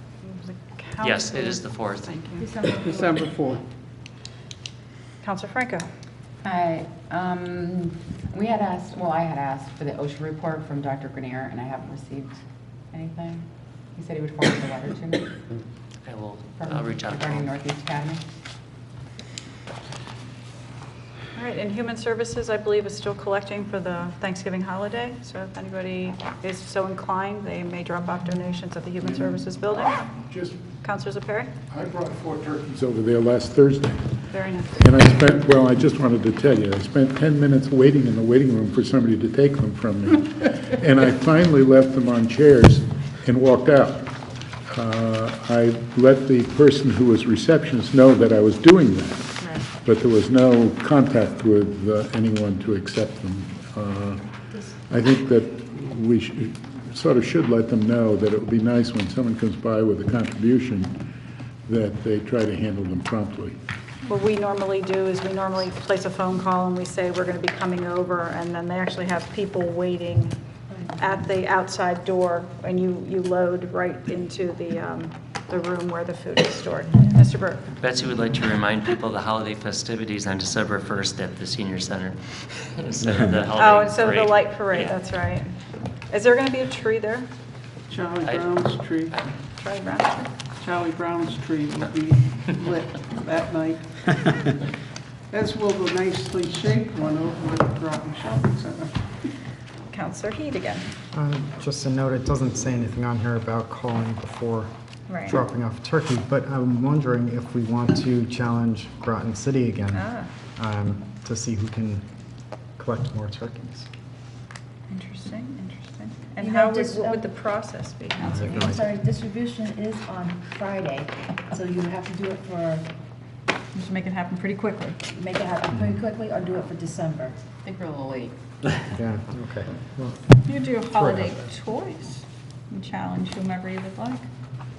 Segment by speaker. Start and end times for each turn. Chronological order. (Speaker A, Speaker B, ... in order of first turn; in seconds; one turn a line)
Speaker A: 0.2-2.5
Speaker B: 1.0-2.2
Speaker C: 2.4-3.2
Speaker D: 2.6-3.6
Speaker A: 5.2-5.8
Speaker E: 6.4-15.7
Speaker B: 16.0-17.6
Speaker E: 16.6-18.2
Speaker A: 21.4-30.1
Speaker F: 30.2-30.6
Speaker A: 30.8-31.5
Speaker F: 31.7-34.1
Speaker A: 34.3-34.8
Speaker F: 34.8-44.1
Speaker F: 44.7-60.9
Speaker F: 61.7-63.5
Speaker A: 64.1-70.3
Speaker C: 70.7-71.0
Speaker A: 71.0-77.6
Speaker B: 77.8-85.0
Speaker A: 83.6-85.5
Speaker A: 86.1-87.3
Speaker D: 87.9-89.2
Speaker A: 89.6-90.3
Speaker D: 90.6-94.6
Speaker D: 95.3-99.1
Speaker A: 99.9-100.9
Speaker G: 101.1-104.7
Speaker A: 105.1-105.4
Speaker G: 105.2-112.0
Speaker A: 109.9-110.3
Speaker G: 112.8-113.9
Speaker A: 114.9-118.8
Speaker C: 116.4-117.2
Speaker G: 118.2-118.9
Speaker C: 118.6-122.9
Speaker A: 123.7-125.0
Speaker C: 125.1-127.5
Speaker E: 127.6-128.4
Speaker G: 128.8-130.3
Speaker A: 130.4-134.2
Speaker G: 130.9-131.5